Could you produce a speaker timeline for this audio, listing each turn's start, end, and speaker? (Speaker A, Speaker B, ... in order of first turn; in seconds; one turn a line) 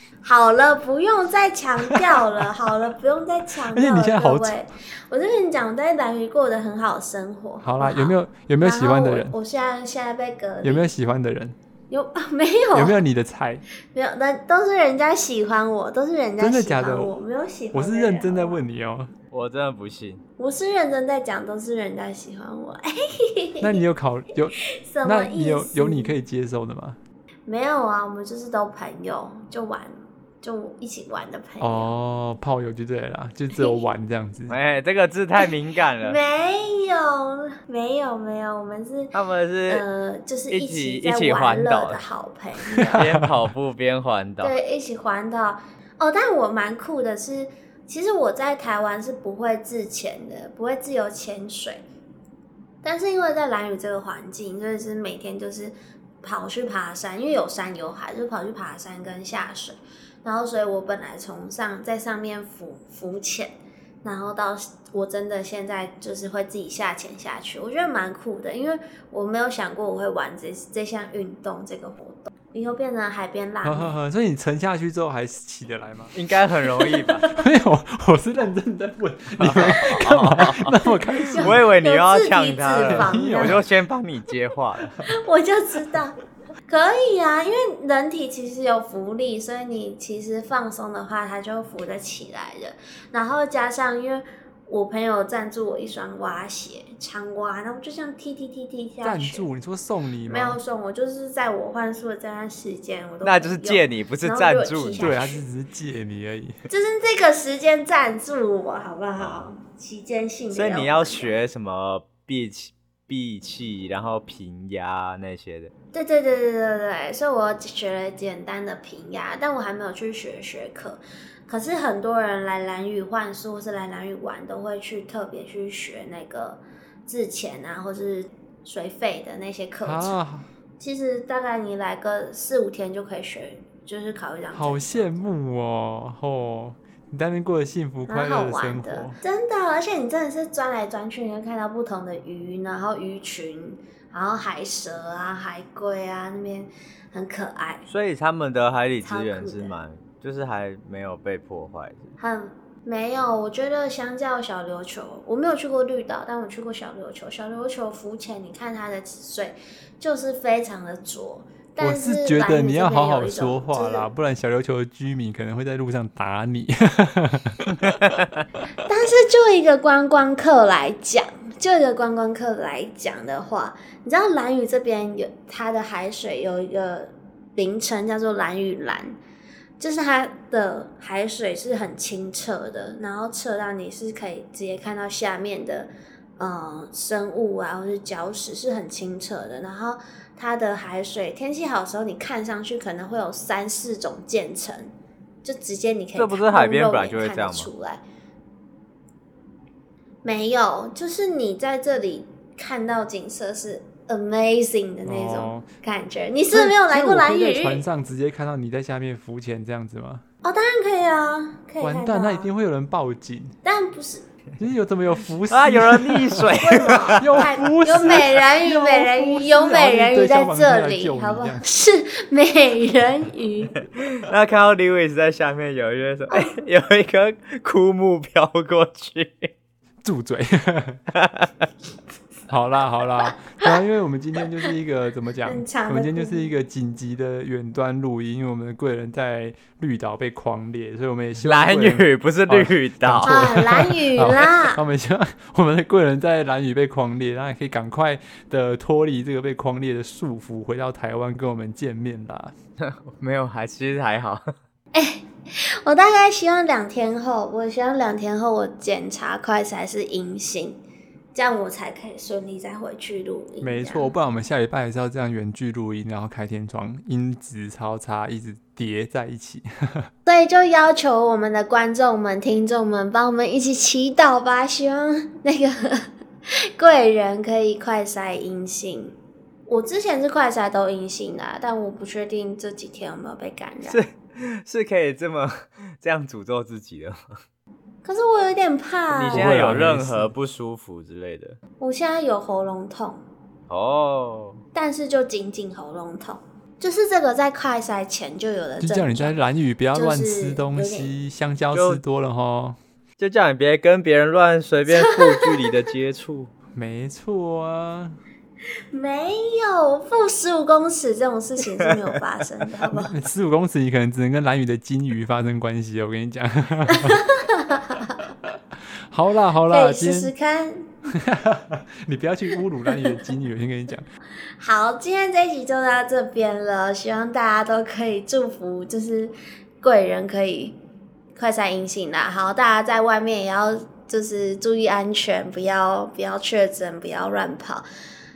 Speaker A: 0.2-10.9
Speaker B: 1.9-2.4
Speaker B: 3.7-4.6
Speaker B: 7.6-9.3
Speaker B: 10.6-11.6
Speaker A: 11.9-13.0
Speaker B: 12.7-13.6
Speaker A: 13.9-18.6
Speaker B: 16.4-17.1
Speaker B: 17.7-19.1
Speaker C: 19.3-20.2
Speaker A: 20.4-23.8
Speaker B: 23.6-27.0
Speaker A: 24.7-26.2
Speaker A: 27.5-31.9
Speaker B: 31.6-34.6
Speaker A: 33.5-33.9
Speaker C: 34.5-36.2
Speaker A: 36.0-39.1
Speaker C: 39.1-39.8
Speaker A: 39.7-43.1
Speaker C: 40.5-42.0
Speaker B: 42.7-43.4
Speaker C: 42.9-44.6
Speaker A: 44.4-51.8
Speaker A: 52.8-63.5
Speaker A: 64.0-73.9
Speaker B: 73.6-76.1
Speaker C: 76.1-77.2
Speaker A: 76.6-77.4
Speaker B: 77.3-81.6
Speaker C: 79.4-80.8
Speaker A: 79.8-80.0
Speaker A: 81.3-83.6
Speaker C: 81.4-85.0
Speaker B: 82.8-83.6
Speaker A: 85.0-99.5
Speaker B: 99.0-100.6
Speaker A: 100.3-105.4
Speaker C: 103.2-105.2
Speaker B: 105.0-106.6
Speaker A: 106.7-111.4
Speaker C: 109.2-109.5
Speaker C: 110.5-115.7
Speaker A: 115.9-130.2
Speaker B: 129.8-130.5
Speaker A: 130.8-135.2
Speaker B: 134.5-139.2
Speaker A: 138.1-147.9
Speaker C: 147.9-152.1
Speaker A: 149.0-149.7
Speaker A: 152.2-164.1
Speaker B: 161.8-167.9
Speaker C: 167.8-168.4
Speaker A: 168.9-179.2
Speaker A: 179.8-194.9
Speaker A: 195.4-198.0
Speaker C: 196.2-197.7
Speaker A: 200.2-207.9
Speaker B: 205.1-205.7
Speaker B: 206.5-210.2
Speaker A: 210.4-212.5
Speaker B: 211.8-213.6
Speaker A: 213.6-214.3
Speaker B: 214.6-216.5
Speaker C: 215.5-218.4
Speaker A: 216.6-223.8
Speaker B: 217.2-221.6
Speaker C: 224.2-229.5
Speaker B: 230.0-231.0
Speaker C: 231.1-231.7
Speaker B: 232.5-252.5
Speaker A: 233.4-233.7
Speaker A: 235.5-236.5
Speaker C: 241.4-243.5
Speaker A: 243.2-244.8
Speaker C: 252.8-254.5
Speaker A: 254.9-260.8
Speaker A: 261.4-264.1
Speaker B: 263.6-270.1
Speaker A: 270.3-276.1
Speaker A: 276.8-279.1
Speaker A: 279.7-284.0
Speaker C: 283.9-287.2
Speaker A: 288.1-289.6
Speaker C: 289.1-291.6
Speaker B: 289.3-290.3
Speaker A: 291.8-293.2
Speaker C: 293.7-294.6
Speaker A: 294.8-299.4
Speaker B: 298.8-302.8
Speaker A: 299.9-301.1
Speaker C: 301.7-302.0
Speaker C: 303.2-306.5
Speaker A: 304.9-305.5
Speaker B: 306.8-308.2
Speaker A: 308.9-313.2
Speaker C: 311.8-312.2
Speaker B: 312.8-317.2
Speaker A: 316.9-318.2
Speaker B: 319.1-320.3
Speaker A: 319.7-321.0
Speaker B: 321.1-324.1
Speaker A: 324.6-330.8
Speaker A: 331.4-337.9